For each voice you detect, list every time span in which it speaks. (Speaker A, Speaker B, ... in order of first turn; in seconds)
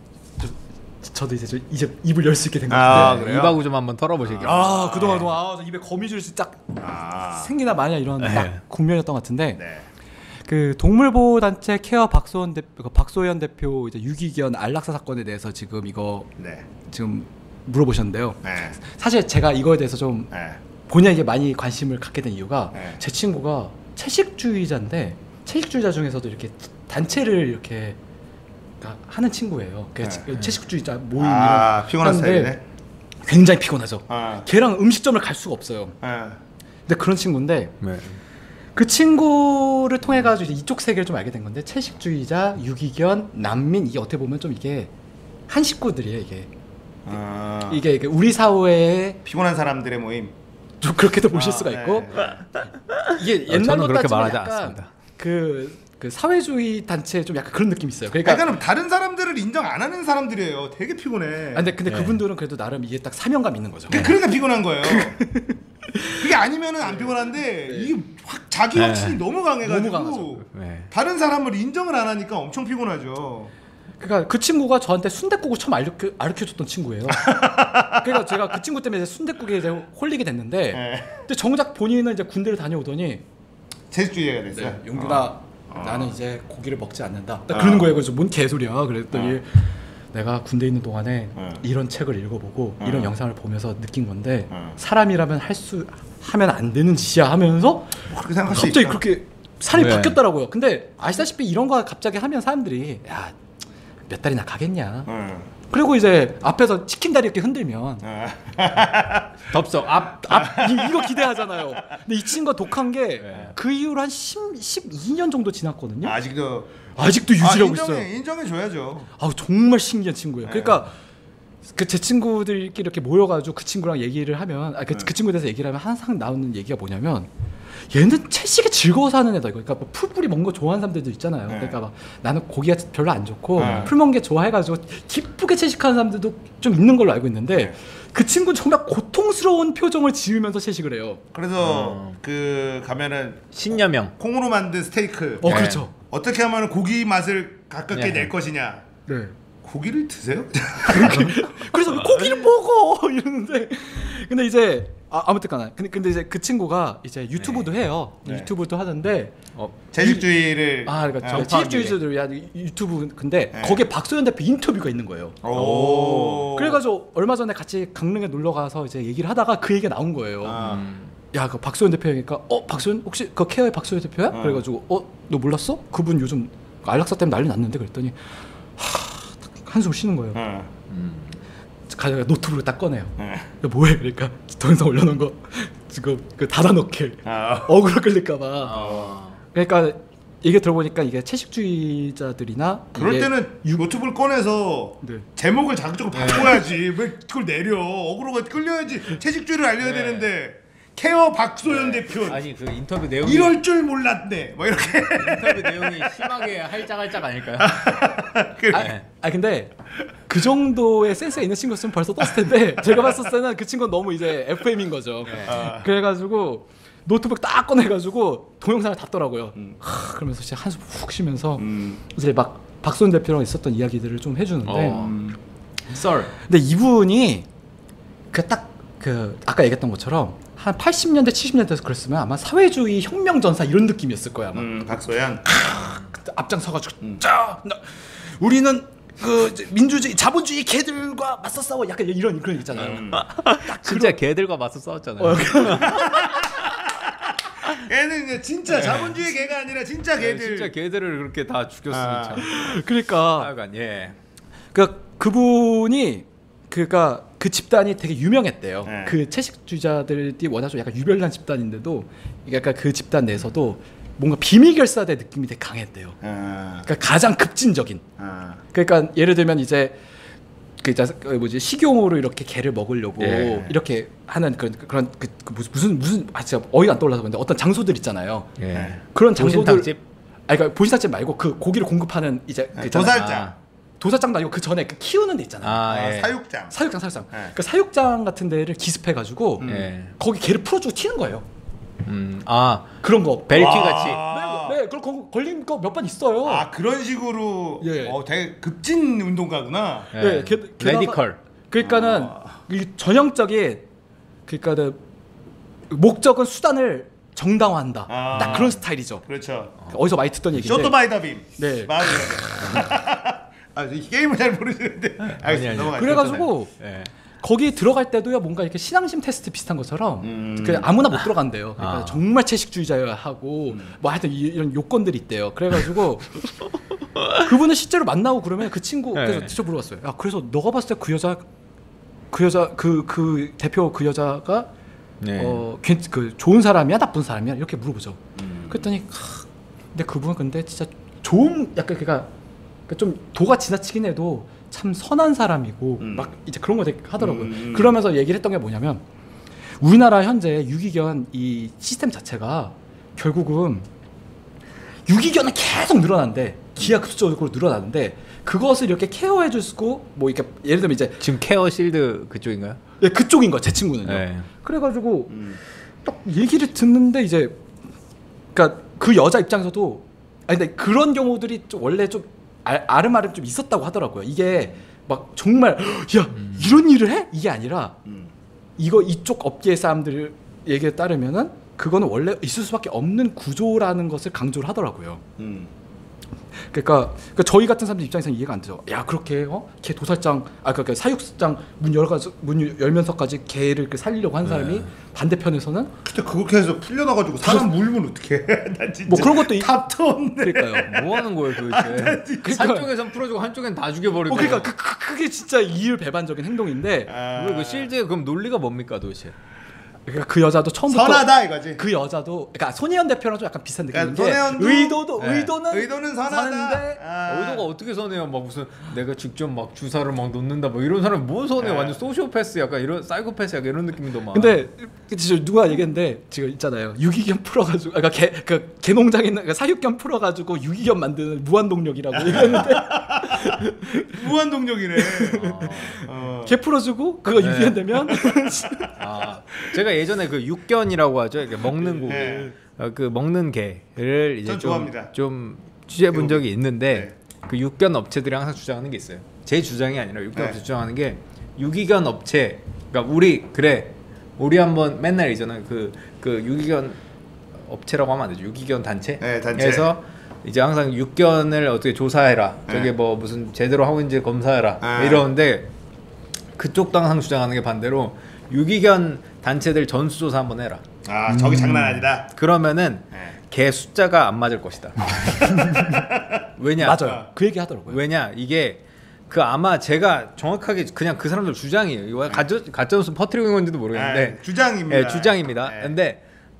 Speaker A: 0.4-3.2, 4.4-6.8, 7.3-9.6, 10.4-16.3, 16.8-20.3, 20.9-28.0, 28.8-32.5, 33.2-36.0, 36.9-37.7, 38.7-44.9, 45.5-46.5, 47.7-49.2, 50.8-52.1, 53.1-58.5, 61.5-64.1, 64.8-66.2, 66.8-67.9, 69.6-70.3, 74.0-77.3, 77.9-83.2, 84.5-103.3, 104.1-105.1, 105.7-108.0, 110.2-116.2, 116.9-118.1, 119.2-121.0, 121.7-127.3, 127.9-141.2, 145.4-145.9, 149.1-149.3, 150.9-159.3, 160.0-160.2, 160.8-170.6, 171.3-180.4, 181.9-188.8, 189.5-193.9, 208.7-209.7, 210.3-225.1, 226.4-227.4, 228.3-234.7, 235.4-244.2, 245.2-246.1, 252.4-253.5, 254.7-266.2, 266.8-268.0, 268.7-270.0, 270.8-278.5, 279.1-279.9, 280.5-283.3, 284.0-285.8, 286.7-291.4, 293.0-296.7, 297.8-298.2, 300.1-303.8, 304.5-305.0, 305.9-309.2, 309.8-310.9, 311.6-312.7, 315.9-316.7, 317.4-326.4, 327.4-331.4, 332.3-334.7, 335.3-342.3, 342.9-349.0, 349.8-353.9, 355.1-361.3, 363.0-365.4, 366.0-367.6, 368.5-377.9, 378.8-385.2, 386.6-395.9, 397.4-397.7, 399.1-399.7, 400.4-400.9, 402.4-402.9, 404.3-407.1, 410.1-417.0, 424.3-434.2, 435.0-439.0, 442.1-442.5, 476.8-478.0
Speaker B: 2.7-3.6, 4.3-5.3, 6.8-7.5, 9.6-9.9, 16.4-16.6, 18.4-18.8, 20.3-20.6, 22.7-23.0, 31.2-32.6, 34.1-34.5, 36.0-36.4, 47.0-47.8, 49.2-50.3, 51.3-52.4, 58.2-61.7, 63.9-65.2, 66.2-73.5, 77.1-78.4, 80.7-81.1, 83.9-86.1, 87.5-87.9, 89.1-89.4, 91.3-91.6, 92.8-93.1, 94.5-94.8, 98.1-99.0, 105.1-105.5, 108.0-109.3, 110.3-111.3, 116.0-119.1, 120.4-120.9, 131.5-131.8, 133.6-133.9, 141.3-145.6, 146.1-148.8, 149.6-151.5, 158.2-158.5, 159.9-161.5, 163.5-163.8, 165.4-166.8, 170.4-170.8, 174.3-174.6, 180.3-180.7, 183.2-183.5, 187.2-187.7, 188.7-189.1, 192.9-202.4, 203.2-206.4, 207.6-208.9, 215.4-215.9, 221.6-222.0, 224.9-225.4, 234.5-235.4, 242.7-243.2, 245.8-246.7, 247.7-250.7, 251.9-252.8, 258.8-259.2, 266.2-266.9, 268.2-268.6, 273.4-273.8, 278.7-279.0, 282.7-283.5, 285.9-286.7, 289.6-289.9, 293.5-294.8, 296.4-300.1, 301.8-302.6, 308.1-309.7, 310.6-316.5, 320.2-320.9, 338.4-338.8, 346.0-346.3, 347.2-347.9, 365.3-365.6, 378.1-378.3, 385.4-385.7, 396.0-402.6, 407.1-407.9, 410.9-411.8, 413.9-417.7, 421.6-422.0, 432.2-436.6, 438.0-438.4, 442.1-442.5, 444.4-445.1, 446.1-447.1, 450.3-450.6, 459.2-459.9, 462.7-462.9, 464.8-465.2, 471.0-472.3, 475.4-476.4, 483.9-486.0
Speaker C: 2.9-5.3, 8.2-8.6, 37.8-38.2, 53.0-54.9, 61.9-62.2, 68.7-69.2, 70.4-70.9, 99.7-100.2, 109.5-110.4, 113.2-113.5, 133.6-133.9, 141.6-142.2, 143.5-144.1, 145.4-145.8, 147.9-148.3, 152.0-152.4, 157.3-157.8, 159.5-159.8, 161.2-162.0, 170.6-171.1, 180.9-181.4, 188.6-189.4, 196.1-196.6, 199.8-200.3, 201.6-203.6, 205.2-208.0, 208.7-209.1, 215.2-215.6, 224.6-225.2, 225.9-226.3, 243.1-246.5, 248.7-249.2, 250.2-252.8, 253.3-254.2, 273.2-273.6, 278.6-280.0, 283.1-283.5, 285.6-286.4, 289.6-290.1, 292.0-292.9, 293.4-294.2, 300.1-301.4, 308.3-308.7, 315.2-316.2, 316.8-317.1, 321.8-322.2, 329.1-329.5, 335.2-335.6, 361.2-362.8, 364.0-364.4, 376.4-376.8, 394.4-394.8, 400.8-404.7, 407.3-409.4, 417.2-424.6, 435.3-436.0, 437.3-438.0, 438.9-457.0, 457.6-465.7, 466.6-475.6, 476.6-477.1, 477.9-486.2